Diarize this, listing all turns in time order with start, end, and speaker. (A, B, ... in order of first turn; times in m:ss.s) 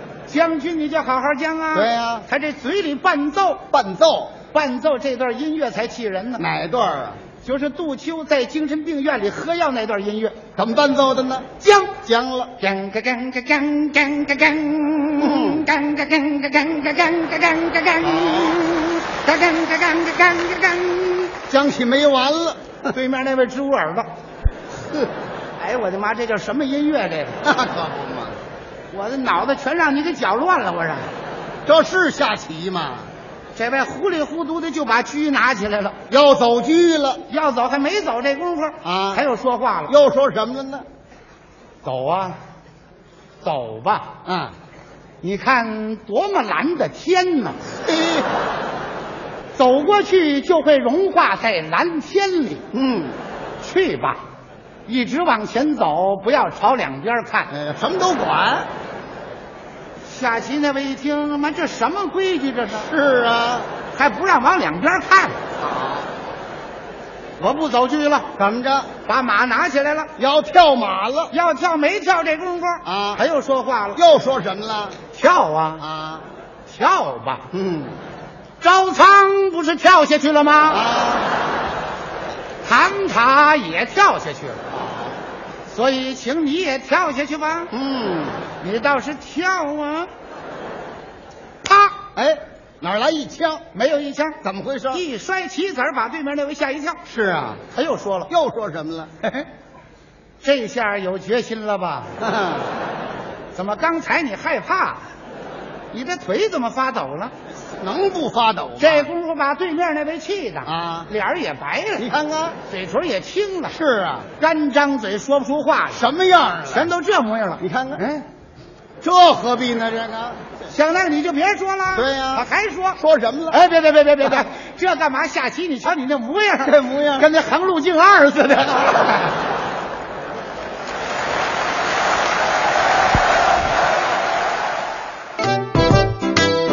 0:00.3-0:03.6 A
0:01.7-0:02.3 B
0:03.7-0:04.4 B
0:04.5-0:06.4 A
0:06.4-0:07.2 B
0:07.4-0:10.4 A
0:10.6-0:12.5 B
0:11.6-0:12.0 A
0:12.6-0:21.4 A
0:15.2-0:15.6 B
0:18.0-0:18.6 B
0:21.5-0:22.9 B
0:22.9-0:24.1 A
0:25.6-0:27.4 A
0:27.4-0:28.4 B
0:28.9-0:31.1 A
0:31.6-0:33.1 B
0:33.5-0:36.0 A
0:36.1-0:37.2 B
0:37.3-0:39.9 A
0:38.8-0:39.2 B
0:39.9-0:40.8 B
0:41.8-0:42.4 A
0:43.4-0:44.2 A
0:44.2-0:44.6 B
0:45.2-0:47.6 A
0:47.8-0:48.2 B
0:49.6-0:52.6 A
0:52.7-0:53.2 B
0:53.6-0:54.2 A
0:54.9-0:57.5 A
0:57.5-0:58.7 B
1:00.0-1:02.9 A
1:02.8-1:03.7 B
1:03.9-1:05.4 A
1:05.6-1:06.1 B
1:07.4-1:08.3 A
1:08.4-1:08.9 B
1:09.0-1:10.1 A
1:10.2-1:11.3 B
1:11.3-1:14.0 A
1:12.8-1:13.2 B
1:13.9-1:15.0 B
1:15.1-1:15.8 A
1:15.8-1:16.2 B
1:16.7-1:17.5 A
1:17.5-1:17.9 B
1:18.6-1:20.8 A
1:20.7-1:21.3 B
1:22.6-1:24.6 A
1:24.7-1:25.2 B
1:25.7-1:27.7 A
1:27.7-1:28.4 B
1:28.6-1:30.1 A
1:31.6-1:32.0 A
1:32.1-1:33.7 B
1:33.7-1:34.4 A
1:34.4-1:35.0 B
1:34.9-1:37.0 A
1:37.0-1:37.6 B
1:37.7-1:38.3 A
1:38.3-1:39.1 B
1:40.4-1:42.1 A
1:42.2-1:42.7 B
1:43.5-1:45.0 A
1:45.9-1:47.3 A
1:47.8-1:49.1 B
1:48.8-1:52.1 A
1:50.6-1:51.1 B
1:52.0-1:52.6 B
1:52.7-1:53.8 A
1:53.7-1:54.3 B
1:54.4-1:56.1 A
1:55.9-1:56.9 B
1:56.6-1:58.2 A
1:57.6-1:58.0 B
1:59.0-2:00.4 B
2:00.7-2:03.0 A
2:01.9-2:03.6 B
2:03.5-2:09.4 A
2:06.6-2:07.3 B